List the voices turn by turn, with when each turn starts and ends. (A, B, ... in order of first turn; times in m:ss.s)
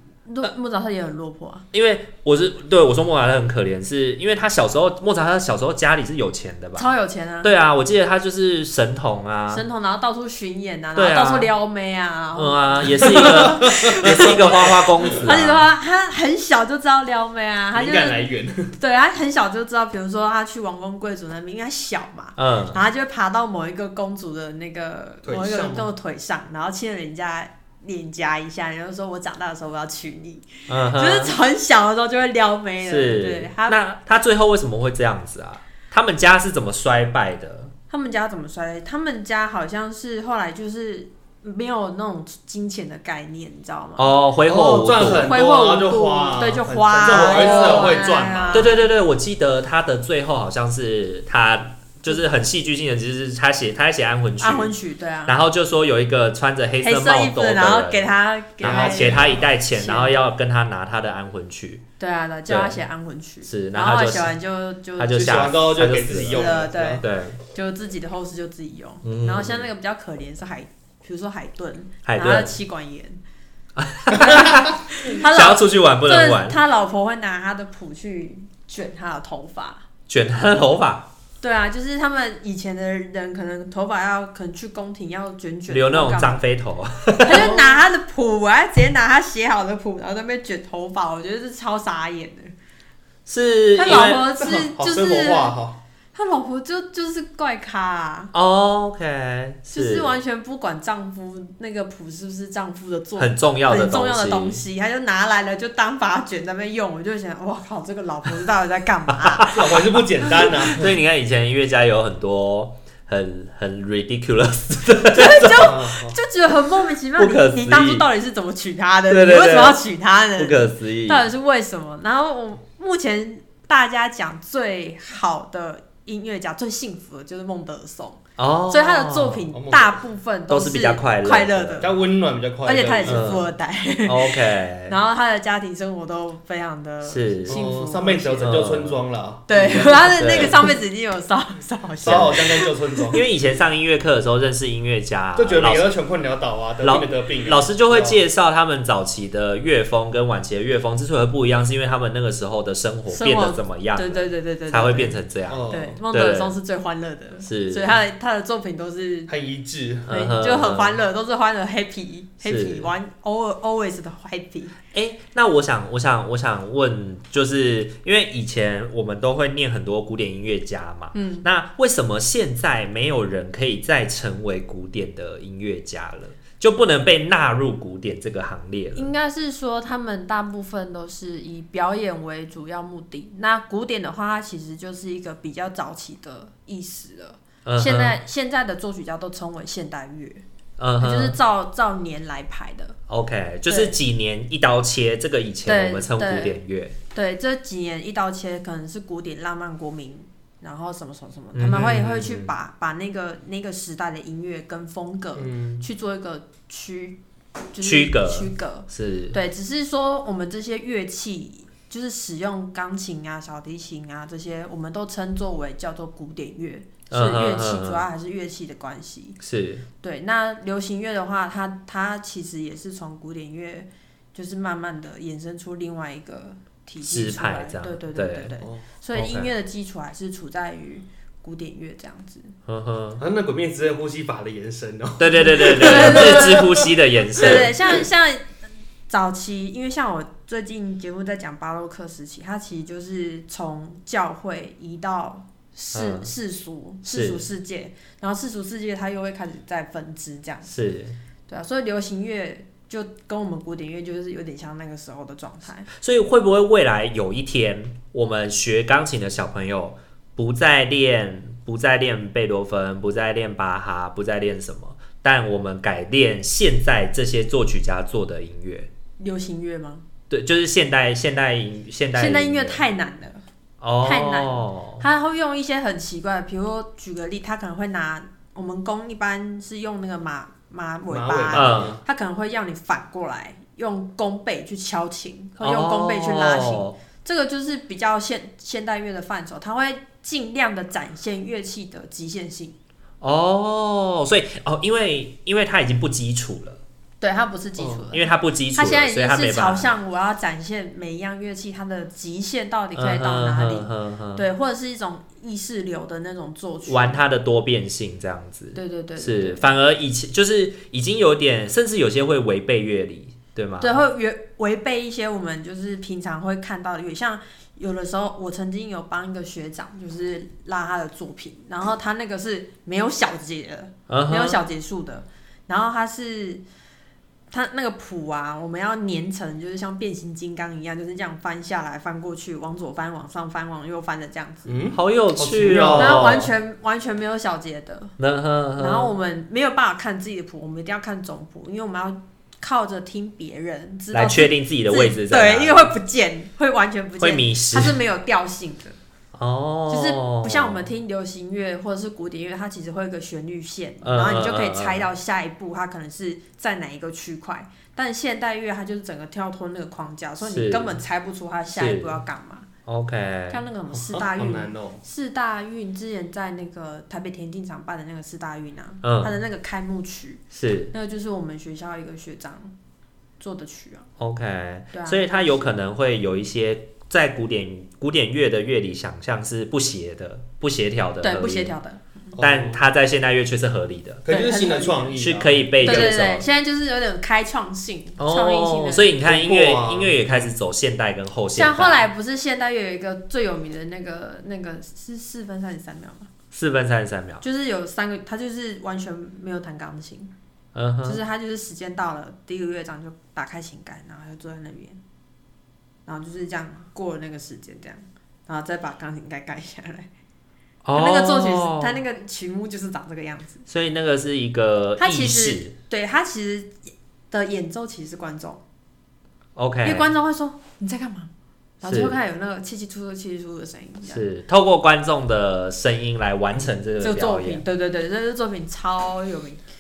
0:00.3-0:01.7 A
0:01.7-0:09.6 B
0:06.8-0:07.5 A
0:09.5-0:33.8 A
0:11.0-0:11.5 B
0:12.4-0:15.7 B
0:13.1-0:15.2 C
0:17.7-0:18.8 C
0:22.4-0:22.8 B
0:25.2-0:25.9 C
0:30.7-0:31.4 B
0:32.8-0:37.7 B
0:37.9-0:44.2 A
0:44.0-0:45.4 B
0:44.5-0:48.7 C
0:45.1-0:48.8 A
0:47.1-0:48.0 B
0:48.5-0:54.7 B
0:54.4-0:55.4 A
0:55.3-0:58.0 B
0:56.8-1:00.2 A
0:58.6-1:01.8 B
0:58.6-0:59.5 C
1:02.0-1:05.4 A
1:02.5-1:02.8 B
1:03.4-1:04.4 B
1:05.0-1:07.4 B
1:05.1-1:07.0 C
1:06.3-1:13.2 A
1:09.0-1:09.7 B
1:12.0-1:12.5 B
1:13.8-1:16.6 B
1:14.2-1:19.8 A
1:20.1-1:21.1 B
1:21.4-1:26.4 A
1:25.7-1:27.8 B
1:27.2-1:32.5 A
1:33.3-1:34.2 B
1:33.8-1:35.5 A
1:33.8-1:35.8 C
1:36.1-1:38.3 A
1:38.3-1:40.1 B
1:39.7-1:50.5 A
1:43.2-1:44.6 B
1:49.2-1:49.8 B
1:49.5-1:50.9 C
1:50.4-1:55.8 B
1:55.1-2:12.0 A
1:55.6-1:56.2 C
1:57.2-1:58.1 B
1:59.1-1:59.8 B
2:00.4-2:01.3 B
2:08.4-2:09.5 B
2:09.5-2:10.0 C
2:10.5-2:11.9 B
2:11.8-2:13.4 C
2:12.6-2:18.7 A
2:13.0-2:13.5 B
2:14.1-2:15.0 B
2:17.0-2:17.8 B
2:17.5-2:20.6 C
2:18.4-2:19.0 B
2:19.5-2:23.2 A
2:20.1-2:20.7 B
2:22.0-2:23.2 C
2:22.1-2:22.4 B
2:23.1-2:25.9 B
2:25.4-2:28.2 C
2:26.8-2:36.5 B
2:33.1-2:39.3 A
2:35.5-2:36.0 C
2:37.4-2:38.0 B
2:39.3-2:40.1 C
2:40.1-2:41.0 B
2:40.1-2:44.8 A
2:42.4-2:42.9 B
2:44.9-2:59.1 B
2:51.1-2:51.5 A
2:59.0-3:10.4 A
3:07.6-3:08.2 B
3:10.8-3:11.4 B
3:11.0-3:13.0 A
3:13.1-3:17.0 B
3:13.7-3:14.0 A
3:15.7-3:16.6 A
3:17.1-3:27.2 A
3:21.5-3:22.5 B
3:25.4-3:25.8 C
3:27.7-3:39.4 A
3:27.8-3:29.4 B
3:37.1-3:38.1 B
3:39.4-3:39.9 B
3:40.0-3:52.5 A
3:47.0-3:48.5 B
3:49.1-3:49.5 B
3:52.7-3:53.2 B
3:53.2-3:56.8 C
3:55.2-3:57.7 B
3:55.4-3:56.7 A
3:57.4-3:58.5 A
3:57.4-3:57.6 C
3:59.1-4:10.7 A
4:05.9-4:06.3 B
4:07.1-4:07.5 B
4:10.7-4:11.2 B
4:11.5-4:15.9 A
4:16.0-4:28.9 B
4:29.2-4:30.0 A
4:30.3-4:32.8 B
4:32.2-4:33.4 A
4:33.8-4:35.0 B
4:34.0-4:52.8 A
4:41.1-4:42.0 C
4:41.5-4:42.0 B
4:45.6-4:47.0 B
4:53.2-4:56.8 B
4:57.2-5:07.2 A
4:57.8-4:58.0 C
4:58.1-4:59.9 B
5:03.0-5:04.4 B
5:06.9-5:14.0 B
5:08.7-5:09.7 A
5:13.8-5:26.6 A
5:24.1-5:24.6 B
5:27.5-5:34.9 A
5:34.7-5:36.3 C
5:34.9-5:36.5 B
5:35.9-5:38.2 A
5:38.2-5:39.1 B
5:38.8-5:49.0 A
5:44.1-5:45.9 B
5:47.2-5:48.0 B
5:49.3-5:50.9 B
5:49.9-6:02.7 A
5:54.0-5:55.1 B
6:00.4-6:01.0 B
6:01.8-6:02.2 B
6:02.9-6:03.6 B
6:03.5-6:12.7 A
6:03.9-6:05.0 C
6:09.0-6:09.3 B
6:10.5-6:10.9 B
6:13.4-6:14.1 A
6:14.2-6:21.8 B
6:14.9-6:15.7 A
6:21.2-6:22.4 A
6:22.4-6:22.8 C
6:22.4-6:24.2 B
6:24.2-6:26.2 C
6:24.3-6:25.2 A
6:25.2-6:26.4 B
6:25.8-6:29.1 A
6:28.2-6:32.0 B
6:29.2-6:30.5 C
6:31.5-6:36.3 A
6:36.5-6:37.4 B
6:37.4-6:40.3 A
6:40.8-6:41.2 B
6:41.0-6:45.0 A
6:46.1-6:50.1 A
6:50.8-6:52.0 B
6:50.9-6:53.6 A
6:53.7-6:55.7 B
6:55.0-6:56.8 A
6:57.3-6:58.6 A
6:59.6-7:00.1 B
6:59.8-7:01.3 A
7:01.8-7:04.2 A
7:01.8-7:02.2 B
7:04.1-7:07.6 B
7:07.0-7:09.6 A